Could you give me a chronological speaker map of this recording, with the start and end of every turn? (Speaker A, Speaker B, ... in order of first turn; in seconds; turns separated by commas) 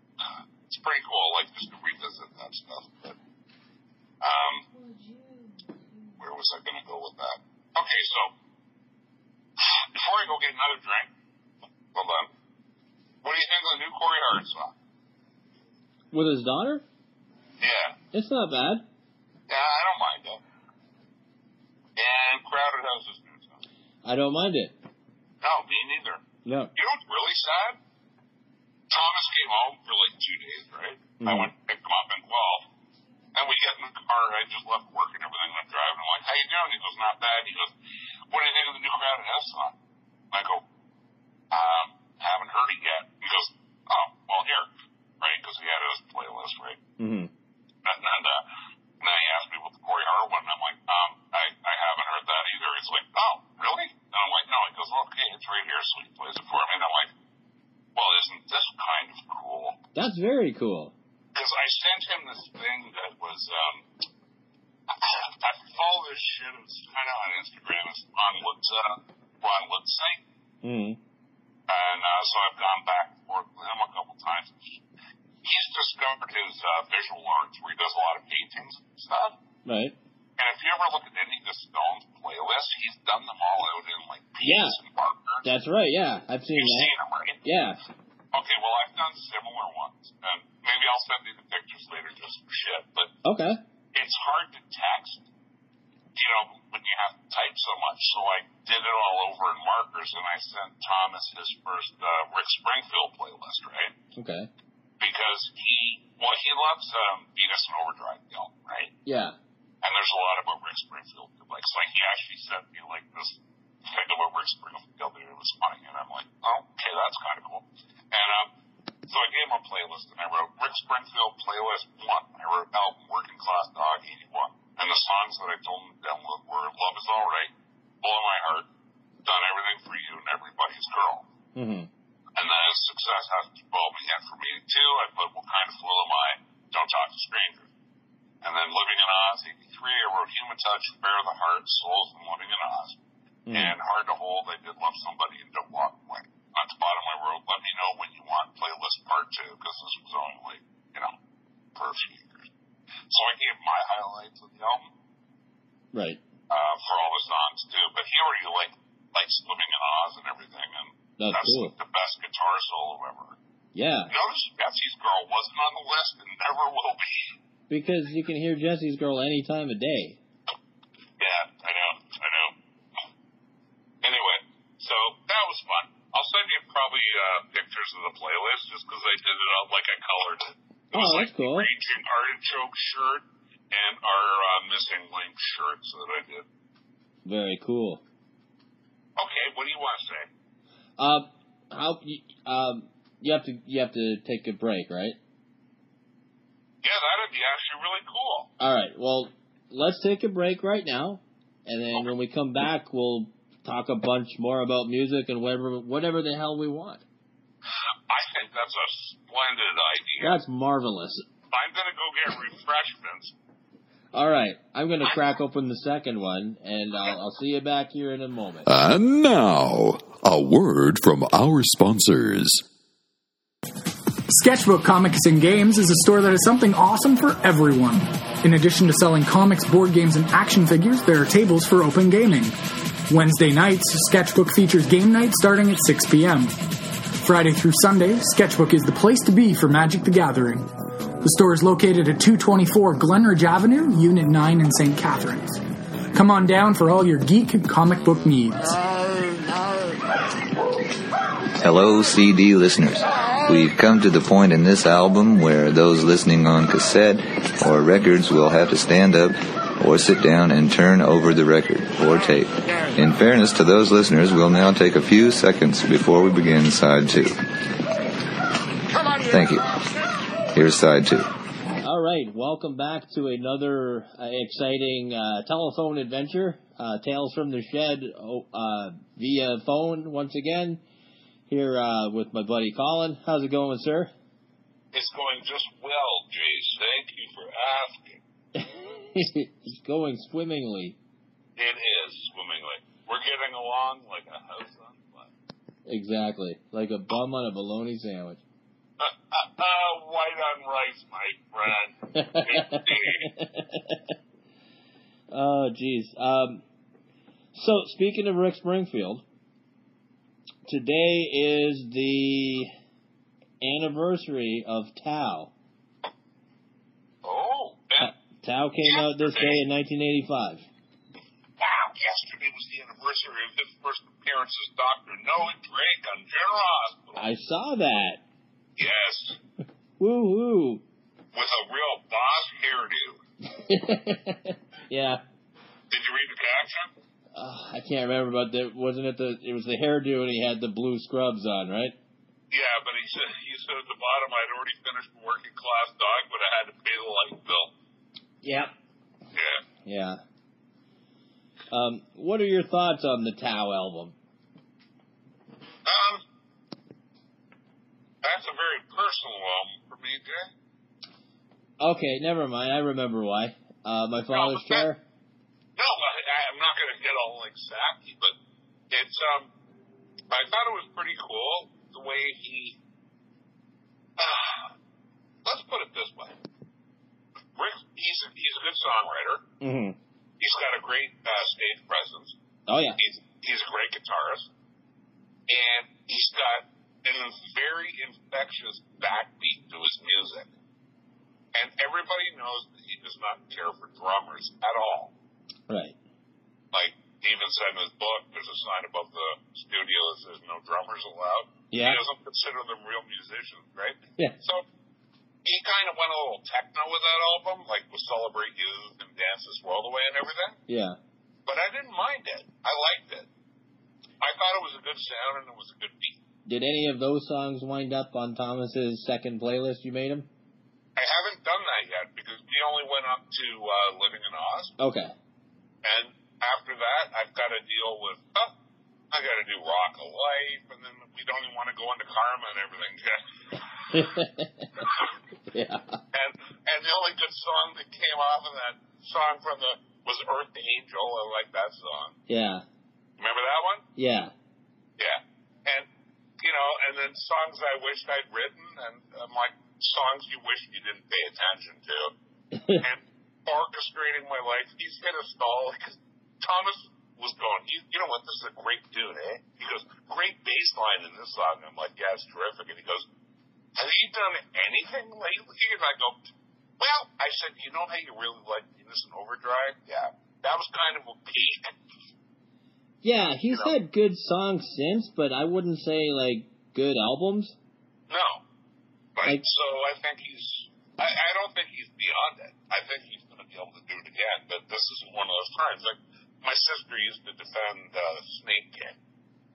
Speaker A: 0.7-3.2, Speaker A: 4.2-4.7, Speaker A: 6.2-8.3, Speaker A: 9.6-11.1, Speaker A: 11.9-12.3, Speaker A: 13.2-14.7, Speaker B: 16.1-16.8, Speaker A: 17.6-18.0, Speaker B: 18.1-18.8, Speaker A: 19.5-20.4, Speaker A: 21.9-23.6, Speaker B: 24.0-24.7, Speaker A: 25.4-27.8, Speaker B: 26.4-26.7, Speaker A: 28.9-32.7, Speaker B: 31.2-31.5, Speaker A: 33.3-37.7, Speaker A: 38.3-39.7, Speaker A: 40.3-40.6, Speaker A: 41.5-44.7, Speaker A: 45.2-46.8, Speaker B: 47.0-47.3, Speaker A: 47.8-48.5, Speaker A: 49.0-57.1, Speaker A: 57.9-59.8, Speaker B: 59.9-60.9, Speaker A: 61.3-63.9, Speaker A: 64.9-70.2, Speaker B: 70.6-71.0, Speaker A: 71.7-74.8, Speaker A: 75.4-79.4, Speaker B: 79.7-79.9, Speaker A: 80.4-85.5, Speaker B: 84.4-84.8, Speaker B: 85.4-87.8, Speaker A: 86.5-87.4, Speaker A: 88.3-93.1, Speaker B: 93.2-93.6, Speaker A: 93.9-95.2, Speaker A: 96.1-103.9, Speaker B: 104.2-104.5, Speaker A: 105.0-108.9, Speaker B: 109.0-109.3, Speaker A: 109.8-118.5, Speaker A: 119.1-128.7, Speaker A: 129.2-131.3, Speaker B: 131.5-131.9, Speaker A: 132.3-137.7, Speaker A: 138.4-143.0, Speaker B: 143.5-143.7, Speaker A: 143.5-151.1, Speaker A: 151.7-152.5, Speaker A: 153.1-154.9, Speaker B: 155.9-156.2, Speaker A: 156.5-163.4, Speaker B: 161.2-161.7, Speaker B: 163.7-164.1, Speaker A: 164.1-167.3, Speaker B: 167.7-170.2, Speaker A: 171.2-172.5, Speaker A: 174.0-186.4, Speaker B: 180.9-181.7, Speaker B: 187.2-188.0, Speaker A: 189.2-190.3, Speaker B: 191.0-195.2, Speaker A: 196.8-198.5, Speaker B: 198.6-207.0, Speaker A: 207.7-210.4, Speaker B: 210.2-211.2, Speaker A: 211.5-213.3, Speaker B: 214.1-218.7, Speaker C: 218.7-222.6, Speaker D: 224.3-232.5, Speaker D: 233.1-236.6, Speaker D: 237.2-240.7, Speaker D: 241.2-245.6, Speaker D: 246.1-248.8, Speaker E: 251.6-267.4, Speaker E: 269.3-269.7, Speaker E: 270.5-271.3, Speaker B: 271.8-280.8, Speaker B: 281.5-284.1, Speaker A: 284.9-288.2, Speaker B: 288.6-291.0, Speaker A: 291.6-295.3, Speaker B: 295.9-298.4, Speaker A: 299.0-303.3, Speaker B: 302.1-304.0, Speaker B: 305.3-306.6, Speaker B: 307.5-309.2, Speaker B: 310.6-312.7, Speaker B: 313.6-315.5, Speaker A: 317.2-318.1, Speaker B: 318.0-320.6, Speaker A: 318.8-319.6, Speaker A: 321.6-327.2, Speaker B: 327.1-328.2, Speaker A: 328.8-329.4, Speaker B: 330.0-330.8, Speaker A: 331.3-333.2, Speaker B: 333.4-335.2, Speaker A: 335.9-336.9, Speaker B: 337.3-341.9, Speaker A: 342.5-347.7, Speaker B: 348.4-348.7, Speaker A: 349.3-349.6, Speaker B: 349.8-350.2, Speaker B: 351.7-354.1, Speaker A: 355.8-356.2, Speaker A: 358.2-360.5, Speaker B: 361.8-365.0, Speaker A: 364.3-364.9, Speaker A: 365.8-368.3, Speaker A: 368.9-369.5, Speaker A: 370.3-372.8, Speaker A: 374.2-374.7, Speaker A: 375.4-376.4, Speaker A: 377.5-379.4, Speaker B: 379.6-380.0, Speaker A: 380.4-382.4, Speaker B: 382.7-383.0, Speaker A: 383.0-384.5, Speaker A: 385.5-390.5, Speaker A: 391.5-395.1, Speaker B: 395.7-395.9, Speaker A: 396.7-404.6, Speaker B: 401.7-402.0, Speaker A: 405.4-410.6, Speaker B: 410.7-411.0, Speaker A: 411.4-413.3, Speaker A: 414.2-416.2, Speaker B: 416.4-420.3, Speaker A: 420.9-424.7, Speaker B: 424.8-425.1, Speaker A: 425.8-428.5, Speaker A: 429.1-434.0, Speaker B: 433.9-434.7, Speaker B: 435.5-436.0, Speaker A: 436.1-442.1, Speaker B: 442.3-442.6, Speaker A: 443.2-443.8, Speaker B: 444.0-444.3, Speaker A: 445.0-445.9, Speaker A: 446.4-452.1, Speaker B: 452.5-452.8, Speaker A: 452.8-463.1, Speaker A: 463.7-466.2, Speaker A: 466.8-471.7, Speaker B: 473.0-477.6, Speaker A: 473.5-473.7, Speaker A: 478.1-478.4, Speaker A: 479.1-488.9